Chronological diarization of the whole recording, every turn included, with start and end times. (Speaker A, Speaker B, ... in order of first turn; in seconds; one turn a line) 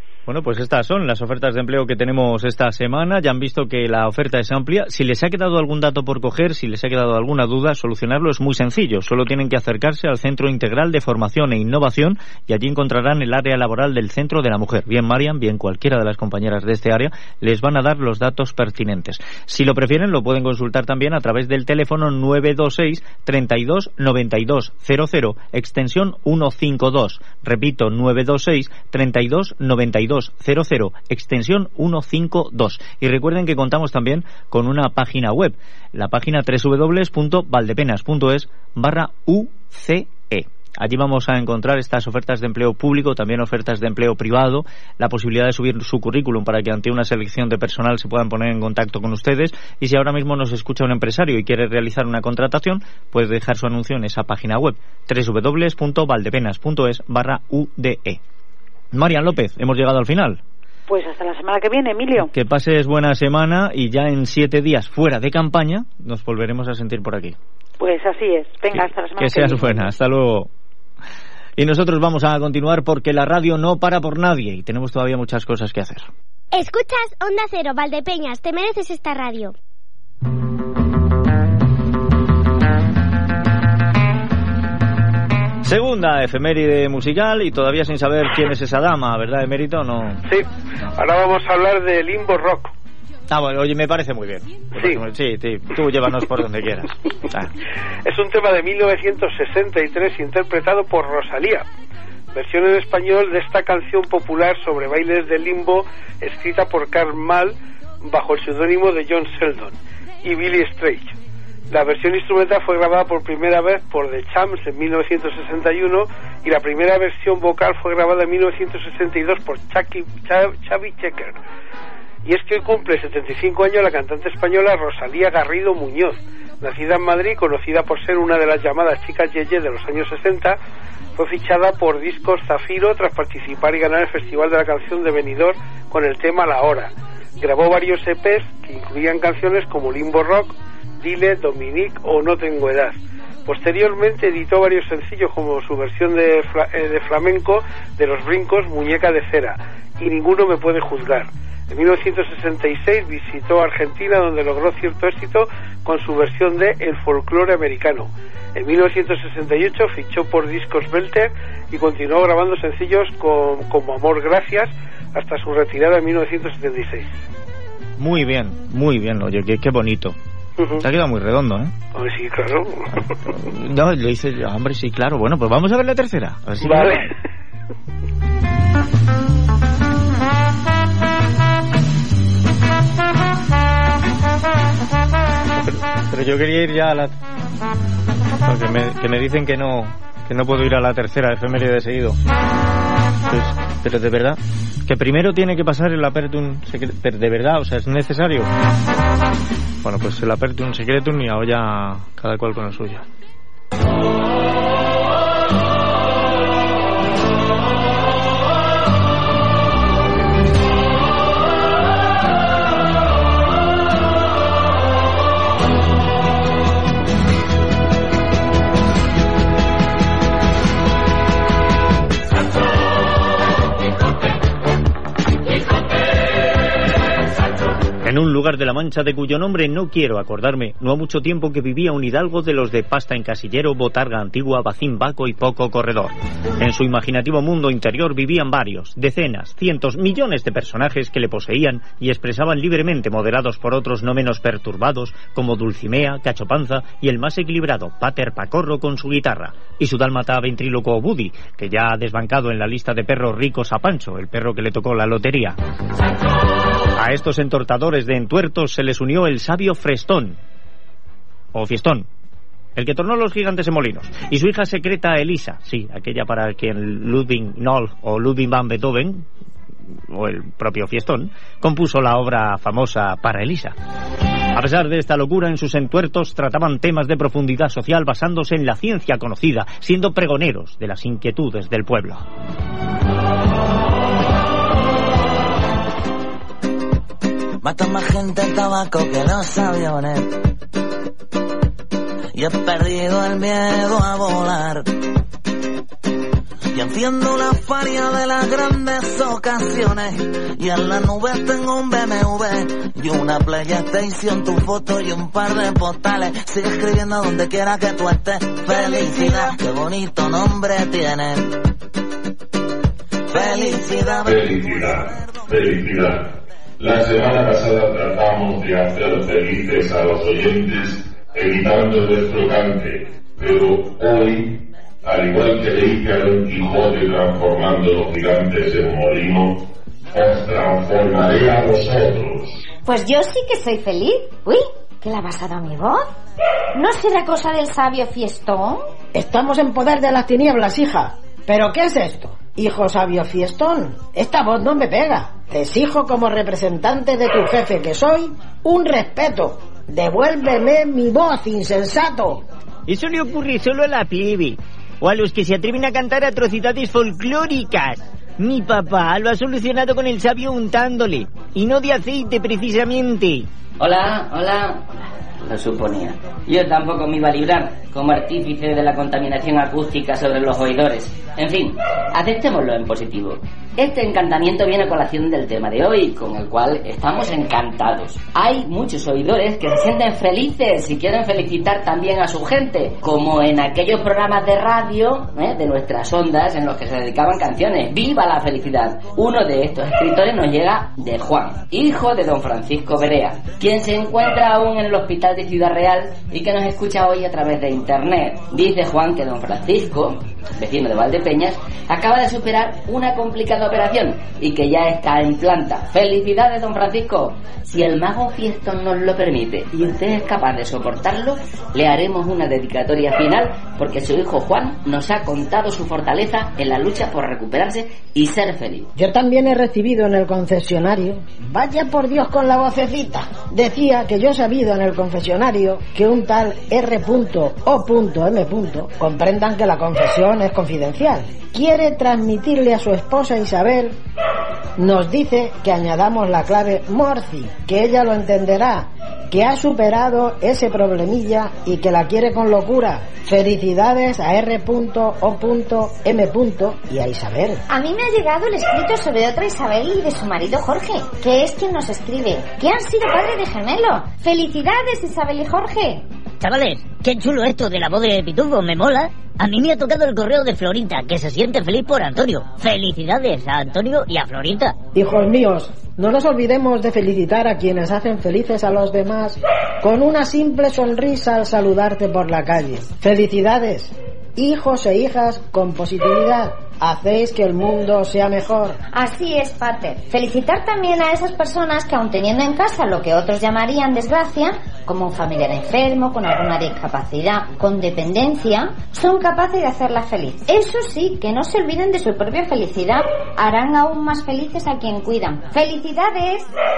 Speaker A: 0.3-58.2
Speaker A: 58.9-60.4
Speaker B: 60.9-62.3
Speaker A: 62.2-67.3
Speaker B: 67.8-69.9
Speaker A: 68.7-70.5
Speaker A: 71.6-76.1
Speaker C: 76.5-79.5
Speaker A: 85.6-90.2
Speaker D: 90.2-92.7
Speaker A: 93.3-97.5
Speaker D: 98.0-101.6
Speaker D: 102.3-111.1
Speaker D: 111.7-121.4
Speaker D: 122.2-130.6
Speaker D: 131.2-167.2
Speaker A: 168.0-170.2
Speaker D: 170.6-170.8
Speaker A: 170.8-171.7
Speaker D: 171.9-172.9
Speaker A: 173.3-177.1
Speaker D: 176.6-177.1
Speaker A: 185.6-187.2
Speaker A: 188.4-192.2
Speaker A: 193.3-198.5
Speaker A: 199.8-203.1
Speaker A: 228.0-255.6
Speaker A: 256.9-260.4
Speaker A: 261.5-262.1
Speaker A: 262.8-269.2
Speaker A: 270.1-273.7
Speaker A: 274.5-282.2
Speaker E: 287.6-290.4
Speaker E: 292.3-294.9
Speaker E: 296.7-311.5
Speaker E: 313.3-315.4
Speaker F: 313.4-316.3
Speaker F: 316.8-329.6
Speaker F: 330.1-332.6
Speaker G: 332.8-336.1
Speaker G: 336.7-338.9
Speaker H: 339.1-352.4
Speaker A: 352.9-356.9
Speaker I: 355.8-356.1
Speaker I: 357.0-359.4
Speaker A: 358.9-360.6
Speaker I: 360.6-361.2
Speaker A: 361.5-363.2
Speaker J: 363.8-418.9
Speaker H: 418.9-434.0
Speaker H: 434.8-447.6
Speaker G: 447.7-456.0
Speaker I: 456.4-464.7
Speaker H: 464.9-478.8
Speaker G: 478.9-496.5